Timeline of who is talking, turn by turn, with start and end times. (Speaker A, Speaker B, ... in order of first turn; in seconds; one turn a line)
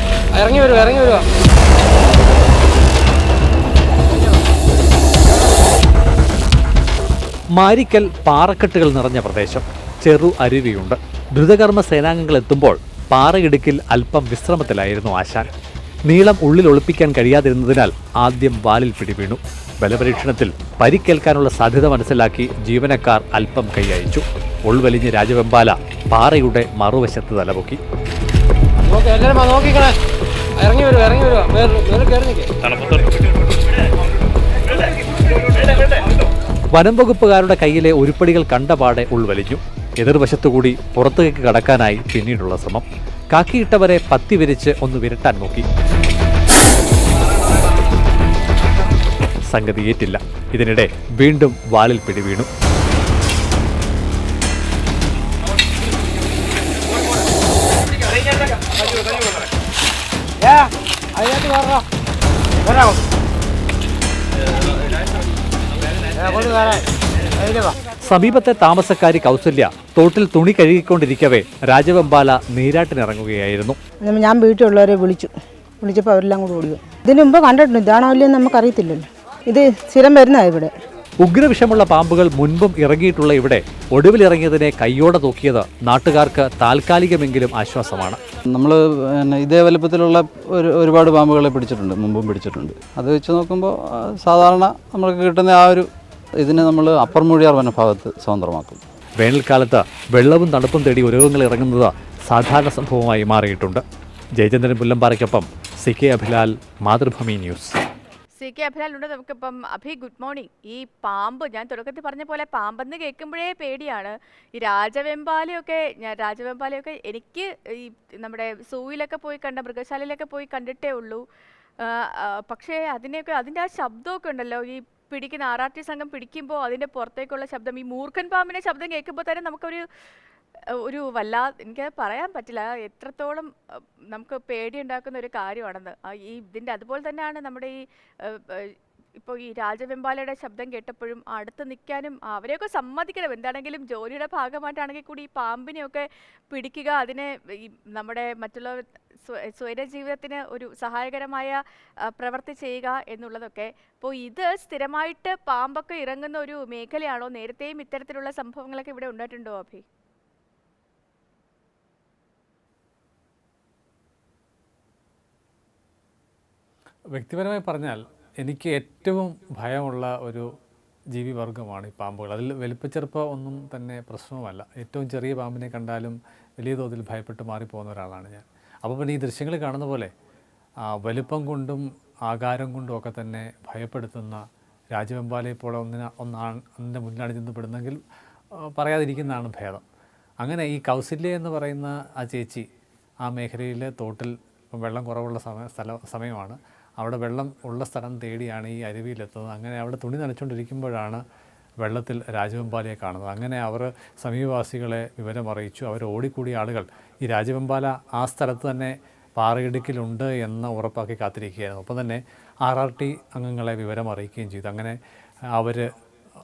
Speaker A: 0.3-1.3
Speaker B: 7.5-15.5
Speaker B: 16.1-27.8
Speaker A: 28.9-30.0
Speaker A: 30.6-32.5
Speaker B: 32.6-33.1
Speaker B: 36.7-45.7
Speaker B: 49.5-52.5
Speaker A: 61.2-61.8
Speaker A: 66.2-66.7
Speaker B: 68.0-73.8
Speaker C: 74.0-80.7
Speaker B: 81.2-88.2
Speaker D: 88.5-95.9
Speaker D: 96.4-98.8
Speaker B: 99.2-103.8
Speaker B: 104.4-107.8
Speaker E: 108.4-121.2
Speaker E: 121.8-129.8
Speaker E: 130.8-133.5
Speaker E: 134.1-159.8
Speaker B: 167.1-170.5
Speaker B: 171.1-180.1
Speaker B: 180.9-188.0
Speaker B: 188.6-189.8
Speaker B: 190.4-192.7
Speaker B: 193.2-201.2
Speaker B: 201.8-215.0
Speaker B: 215.5-215.9